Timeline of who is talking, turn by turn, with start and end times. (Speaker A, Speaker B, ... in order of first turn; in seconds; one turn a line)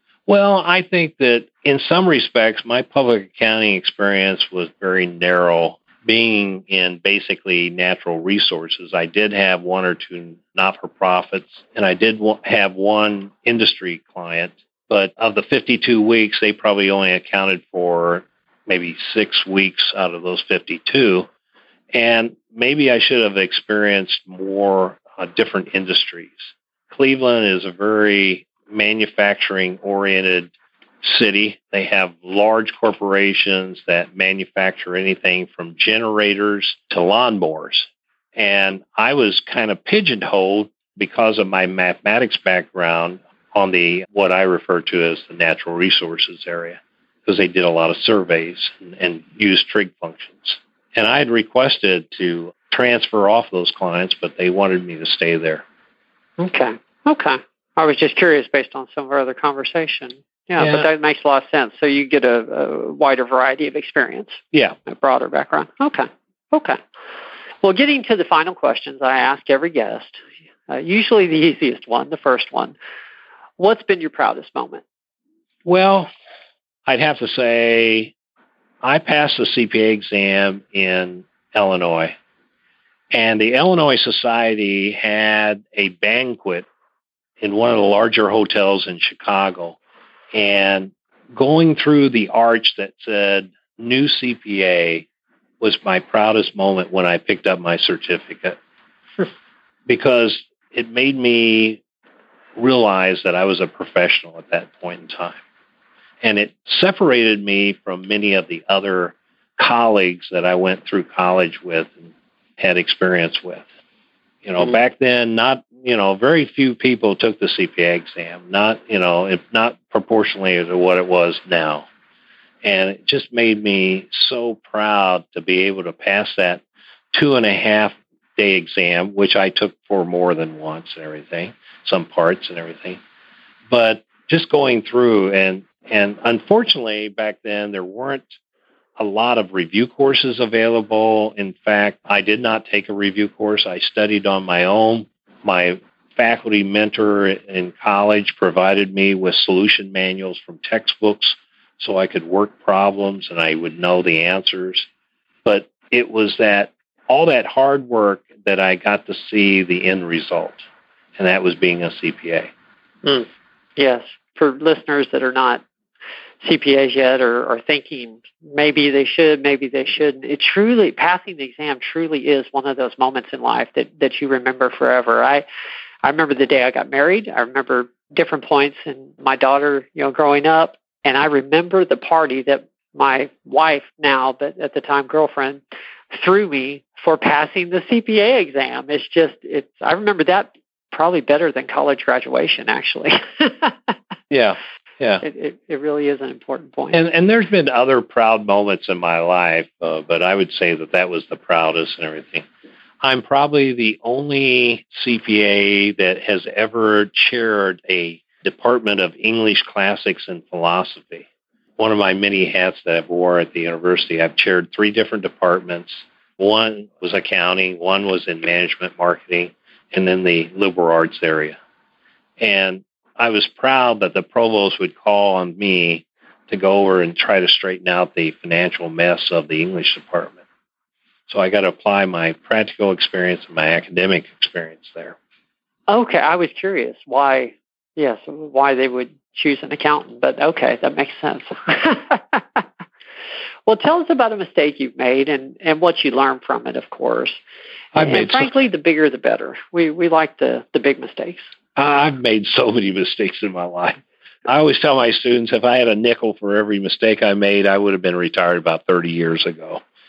Speaker A: 0.3-21.3
Speaker A: 21.9-55.6
Speaker B: 56.4-66.8
Speaker A: 60.6-60.9
Speaker B: 67.6-72.7
Speaker B: 73.6-74.8
Speaker A: 75.6-76.1
Speaker A: 76.8-78.1
Speaker A: 78.8-82.2
Speaker A: 83.1-86.7
Speaker A: 87.4-89.8
Speaker A: 90.3-95.0
Speaker A: 95.6-98.6
Speaker A: 99.9-101.8
Speaker A: 102.5-105.4
Speaker A: 106.2-113.6
Speaker A: 114.4-121.9
Speaker A: 122.6-133.0
Speaker A: 133.7-138.4
Speaker A: 139.0-154.9
Speaker A: 155.4-162.5
Speaker B: 163.0-165.6
Speaker B: 166.4-175.4
Speaker B: 176.0-193.9
Speaker A: 194.3-195.2
Speaker B: 195.2-197.0
Speaker A: 196.9-202.4
Speaker A: 203.0-211.3
Speaker A: 211.8-221.6
Speaker A: 222.4-230.4
Speaker A: 231.3-235.2
Speaker B: 235.9-242.6
Speaker B: 243.7-247.4
Speaker A: 247.9-248.5
Speaker B: 248.0-251.4
Speaker A: 251.8-259.8